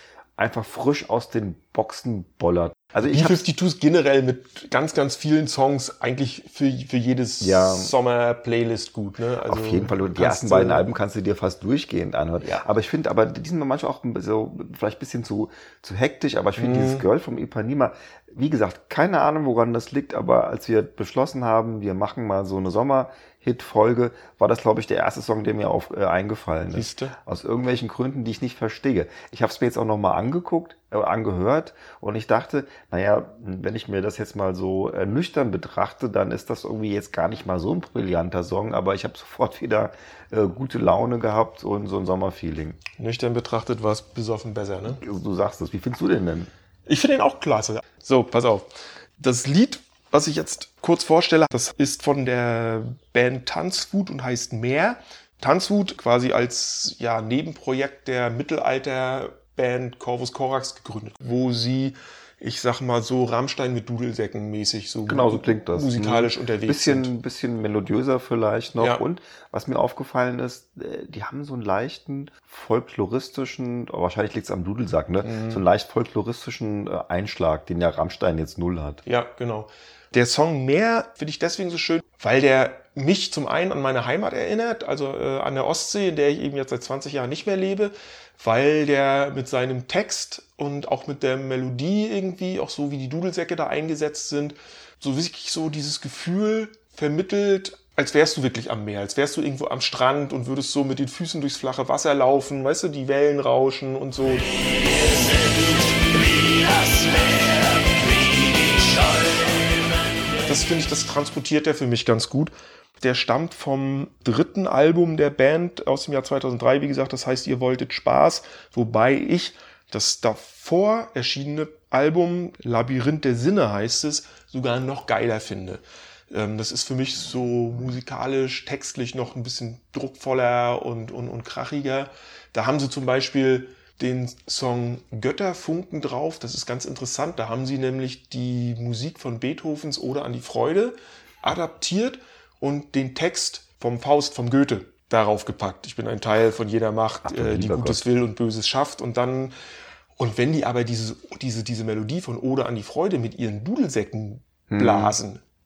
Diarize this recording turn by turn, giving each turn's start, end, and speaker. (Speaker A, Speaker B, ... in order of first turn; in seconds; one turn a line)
Speaker A: 0.4-3.4
Speaker B: 3.0-10.8
Speaker A: 7.4-7.9
Speaker A: 9.5-42.8
Speaker B: 16.6-17.0
Speaker B: 26.7-27.2
Speaker B: 43.0-45.0
Speaker A: 44.8-46.5
Speaker B: 46.9-67.1
Speaker A: 65.1-79.0
Speaker B: 68.8-69.0
Speaker B: 75.2-75.6
Speaker B: 79.0-104.5
Speaker B: 106.5-107.5
Speaker B: 110.4-149.5
Speaker A: 147.2-148.1
Speaker B: 150.2-155.4
Speaker A: 154.7-155.2